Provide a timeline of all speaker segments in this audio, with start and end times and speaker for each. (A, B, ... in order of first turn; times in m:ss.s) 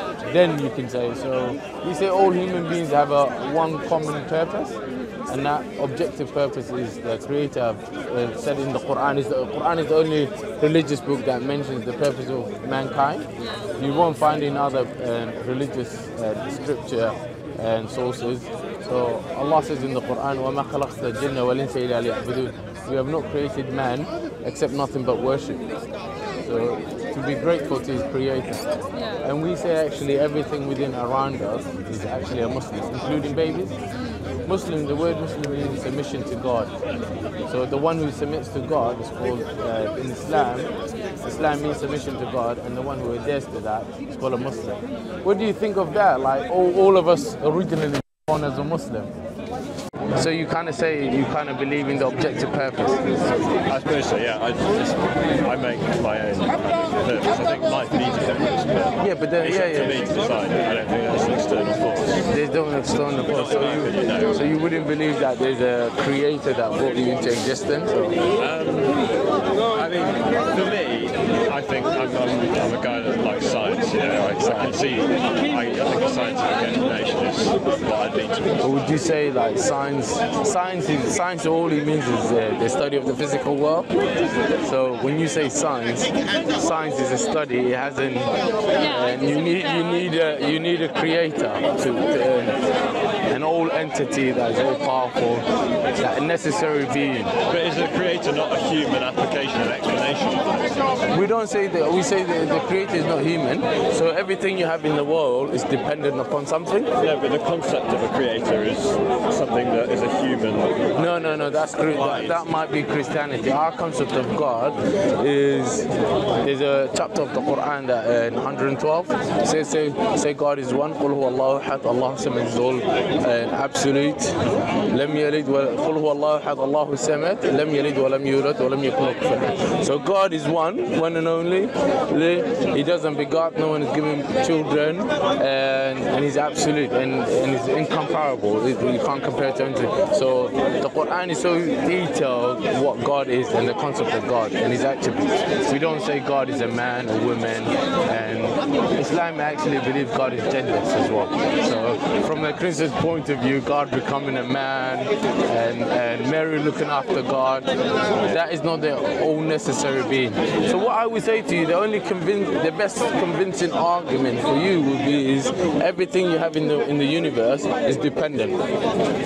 0:00.2-0:04.8 A
0:05.3-0:25.7 A
0:26.4-0:28.6 A
0:29.2-0:33.7 A
0:34.4-0:36.7 A
0:37.5-0:40.7 A
0:41.2-0:49.1 A
0:50.2-0:53.0 A
0:53.7-1:02.2 B
0:59.0-1:00.1 A
1:02.3-1:08.2 A
1:03.3-1:04.4 B
1:08.3-1:09.0 B
1:09.7-1:18.6 B
1:14.4-1:14.7 A
1:18.6-1:23.9 A
1:24.6-1:32.6 A
1:33.3-1:35.4 A
1:36.0-1:37.3 A
1:37.4-1:40.8 B
1:41.1-1:46.9 A
1:47.0-1:52.5 B
1:50.9-1:55.9 A
1:56.4-2:37.7 A
2:38.2-2:48.6 A